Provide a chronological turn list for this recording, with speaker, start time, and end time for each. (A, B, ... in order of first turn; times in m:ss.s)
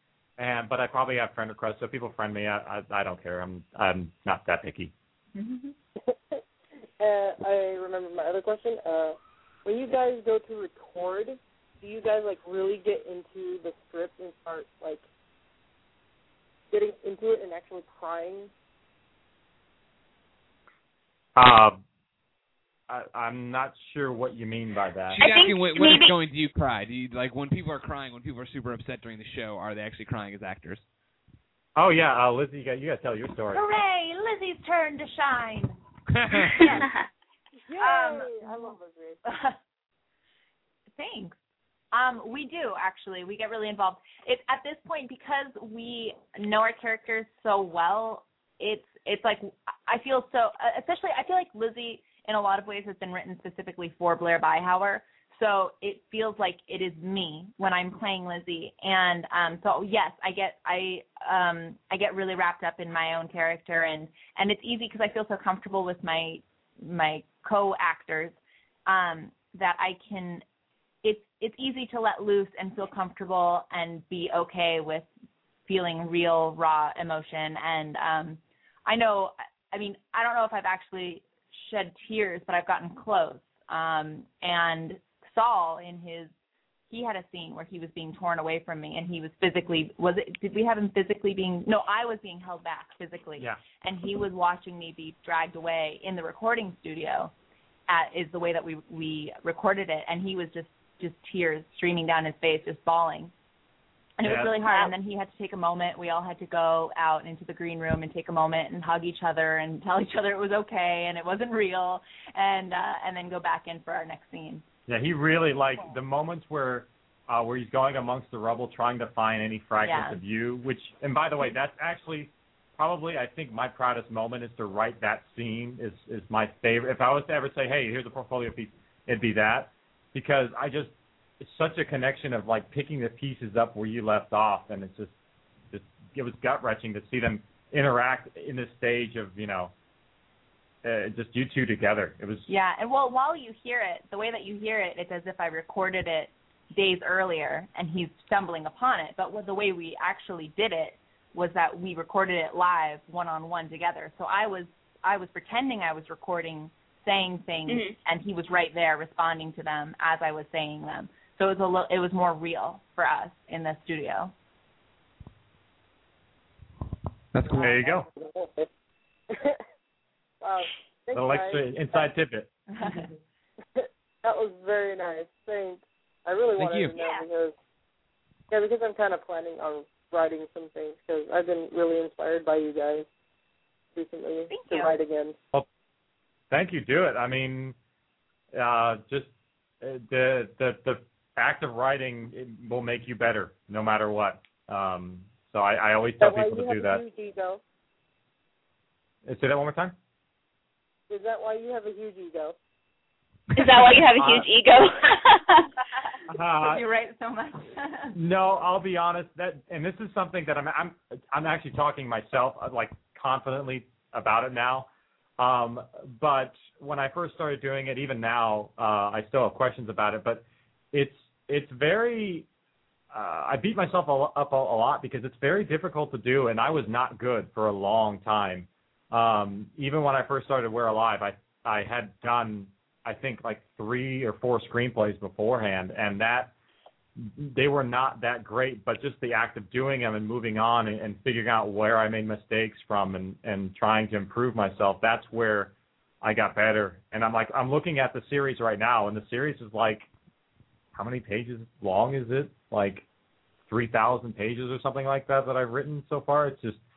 0:00.4-0:04.9 A
0:05.3-0:05.7 B
0:06.1-0:06.4 C
0:07.0-0:15.0 C
0:16.7-0:18.5 C
0:21.4-0:21.8 A
0:22.9-0:25.2 A
0:25.1-0:30.8 D
0:25.2-0:26.1 E
0:31.8-0:33.6 A
0:33.5-0:35.7 B
0:36.1-0:36.6 D
0:36.6-0:36.9 B
0:36.6-0:36.9 E
0:37.7-0:39.2 C
0:37.8-0:39.6 B
0:40.9-0:41.4 B
0:41.9-1:10.4 B
1:11.0-1:15.1 B
1:15.7-1:26.3 B
1:26.9-1:37.3 B
1:37.9-1:43.3 B
1:44.2-1:54.6 B
1:44.2-1:44.6 A
1:44.6-1:44.9 E
1:54.9-2:15.1 A
1:59.8-2:00.2 B
2:15.7-2:19.7 A
2:20.8-2:22.5 A
2:22.5-2:44.3 B
2:37.7-2:37.9 E
2:47.3-2:47.7 D
2:47.5-2:48.1 A
2:47.5-2:48.7 C
2:49.3-2:49.6 C
2:50.4-2:52.1 C
2:51.1-2:52.5 A
2:52.8-2:53.0 B
2:53.8-2:57.6 C
2:56.6-2:56.9 D
2:58.5-3:03.0 C
3:03.9-3:05.4 C
3:04.5-3:04.9 B
3:06.5-3:07.8 A
3:08.5-3:17.0 A
3:16.2-3:17.6 C
3:19.2-3:19.9 A
3:21.1-3:22.6 C
3:23.6-3:25.7 E
3:24.2-3:24.5 A
3:26.3-3:26.8 A
3:26.6-3:28.1 B
3:28.1-3:42.4 A
3:43.1-3:56.5 A
3:57.2-4:10.1 A
4:10.9-4:13.0 A
4:13.7-4:16.8 A